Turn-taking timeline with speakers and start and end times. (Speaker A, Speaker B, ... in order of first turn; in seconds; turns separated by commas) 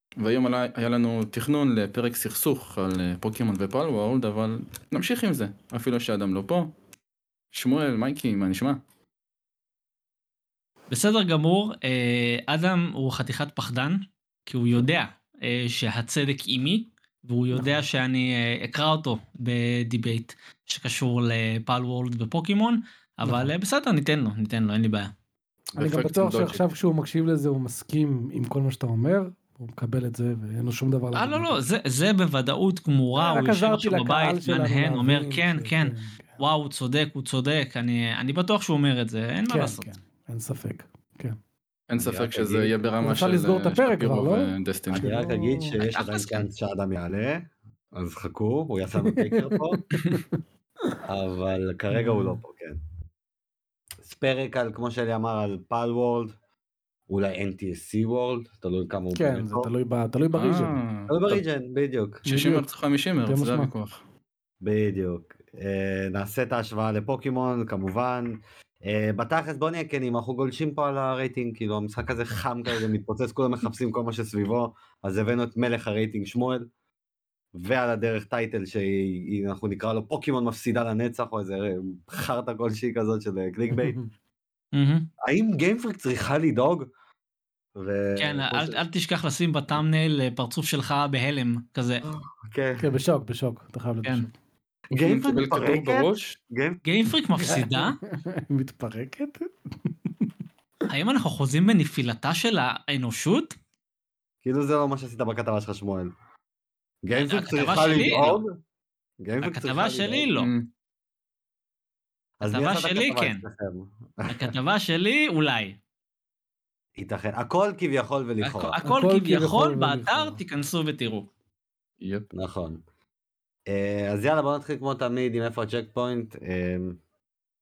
Speaker A: 0.2-6.7, Speaker A: 7.5-8.8, Speaker B: 10.9-25.1, Speaker C: 17.5-17.8, Speaker C: 23.2-23.5, Speaker A: 25.8-26.6, Speaker C: 25.8-31.5, Speaker B: 31.1-39.9, Speaker C: 33.1-36.4, Speaker C: 39.5-41.4, Speaker A: 41.9-45.1, Speaker D: 42.0-42.7, Speaker C: 43.0-45.7, Speaker D: 45.0-49.8, Speaker B: 45.8-46.5, Speaker C: 49.0-50.4, Speaker D: 51.0-52.8, Speaker C: 51.9-52.4, Speaker D: 54.0-56.3, Speaker D: 57.1-59.7, Speaker C: 59.1-60.7, Speaker A: 60.3-61.4, Speaker D: 61.1-62.2, Speaker C: 62.2-62.7, Speaker A: 62.3-64.0, Speaker C: 63.2-63.7, Speaker D: 64.6-76.7, Speaker D: 77.5-84.0, Speaker C: 83.8-84.1, Speaker B: 84.7-85.1, Speaker D: 85.2-86.9, Speaker D: 87.8-88.8, Speaker B: 88.2-92.1, Speaker D: 92.0-92.9, Speaker C: 92.8-94.3, Speaker A: 94.9-96.4, Speaker D: 95.0-96.8, Speaker B: 96.8-98.0, Speaker C: 97.4-100.3, Speaker B: 100.9-103.6, Speaker D: 104.4-106.1, Speaker D: 107.0-108.5, Speaker B: 107.2-108.4, Speaker D: 109.2-110.3, Speaker B: 109.4-110.5, Speaker A: 110.4-110.7, Speaker D: 112.4-114.5, Speaker B: 112.4-113.4, Speaker B: 114.3-115.8, Speaker D: 117.0-118.8, Speaker B: 118.4-121.3, Speaker C: 118.9-120.4, Speaker A: 122.0-122.3, Speaker D: 122.3-122.8, Speaker D: 123.7-127.0